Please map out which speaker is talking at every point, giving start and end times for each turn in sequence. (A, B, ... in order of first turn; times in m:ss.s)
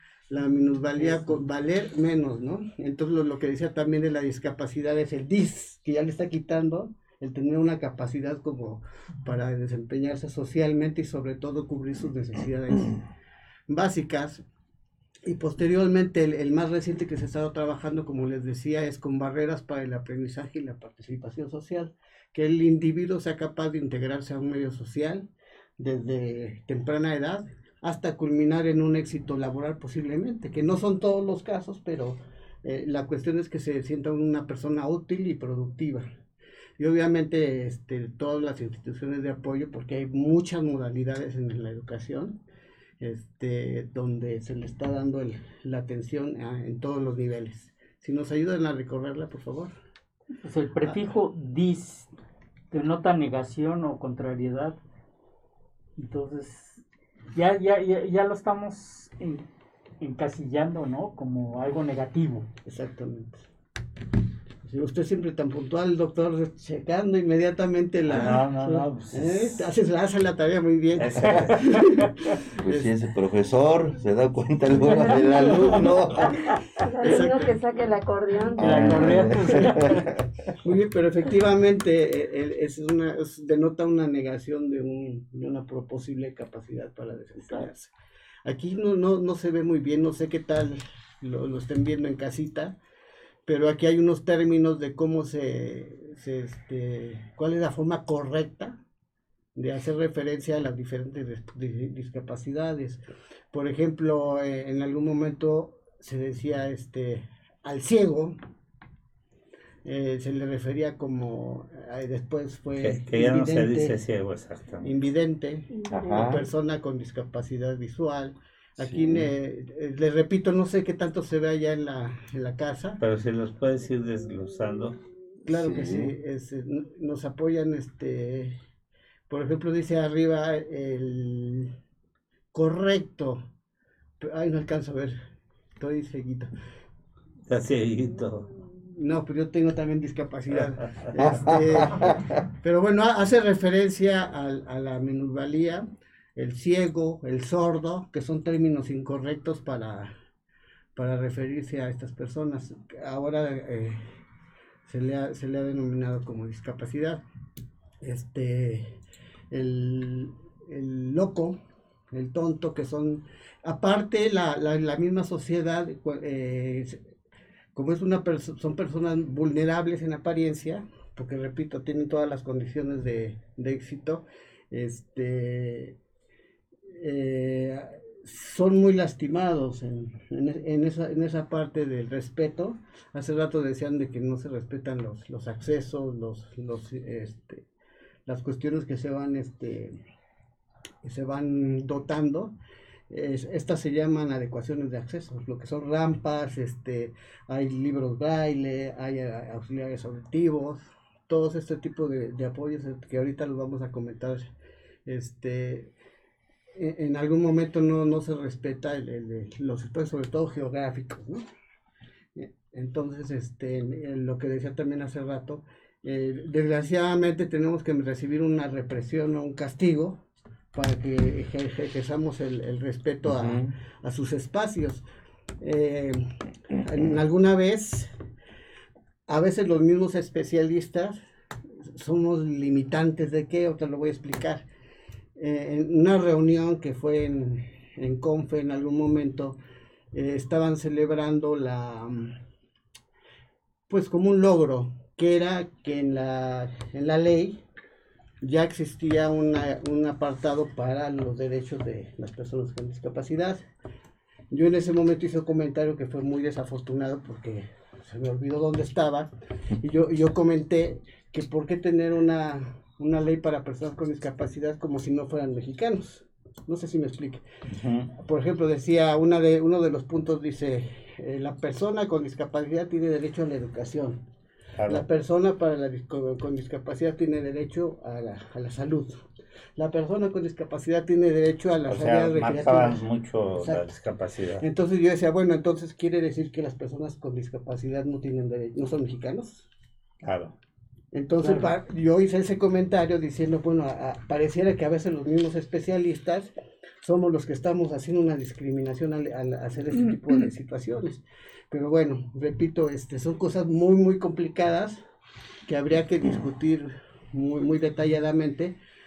0:00.3-0:13.0 A
0:01.0-0:01.4 B
0:13.7-0:14.4 A
0:15.2-0:36.1 A
0:36.8-0:42.4 A
0:43.0-0:49.7 A
0:50.4-0:52.1 B
0:52.7-0:54.8 B
0:56.0-0:56.8 B
0:57.3-0:59.4 B
1:00.0-1:02.5 B
1:02.7-1:03.4 A
1:04.6-1:12.9 A
1:08.1-1:09.7 C
1:11.0-1:11.7 C
1:12.6-1:16.4 D
1:14.9-1:16.2 A
1:16.9-1:19.3 E
1:17.0-1:17.6 A
1:18.6-1:20.1 B
1:18.6-1:19.3 D
1:20.6-1:27.9 A
1:28.4-1:32.8 A
1:33.5-1:38.8 A
1:39.6-1:48.4 A
1:49.8-1:54.0 A
1:52.8-1:54.9 C
1:54.8-2:03.0 A
1:56.1-1:56.4 D
1:58.8-1:59.3 D
2:03.0-2:05.0 C
2:05.4-2:08.6 A
2:05.5-2:06.1 D
2:09.3-2:11.7 A
2:12.5-2:13.4 A
2:14.2-2:15.2 A
2:15.8-2:16.5 A
2:17.5-2:18.5 C
2:18.9-2:30.1 A
2:31.0-2:34.1 A
2:34.9-2:37.2 A
2:38.0-2:39.0 A
2:39.5-2:41.6 A
2:42.1-2:47.0 A
2:47.8-2:56.0 A
2:56.9-3:07.6 A
3:08.3-3:10.0 A
3:11.0-3:12.5 A
3:13.1-3:24.5 A
3:25.1-3:25.9 A
3:26.8-3:31.4 A
3:32.4-3:40.2 A
3:40.7-3:45.0 A
3:43.3-3:43.7 D
3:45.6-3:48.1 A
3:49.3-3:51.2 A
3:51.8-3:54.6 A
3:55.4-3:59.6 A
4:00.1-4:02.4 A
4:03.9-4:07.6 A
4:08.4-4:13.6 A
4:14.5-4:27.4 A
4:27.7-4:28.1 C
4:28.2-4:34.2 A
4:34.8-4:35.0 C
4:34.9-4:39.3 A
4:39.8-4:43.0 A
4:41.9-4:44.6 C
4:43.6-4:43.9 A
4:44.6-4:49.7 A
4:50.2-4:50.6 C
4:51.1-5:05.0 A
4:51.4-4:51.7 B
5:05.7-5:08.8 A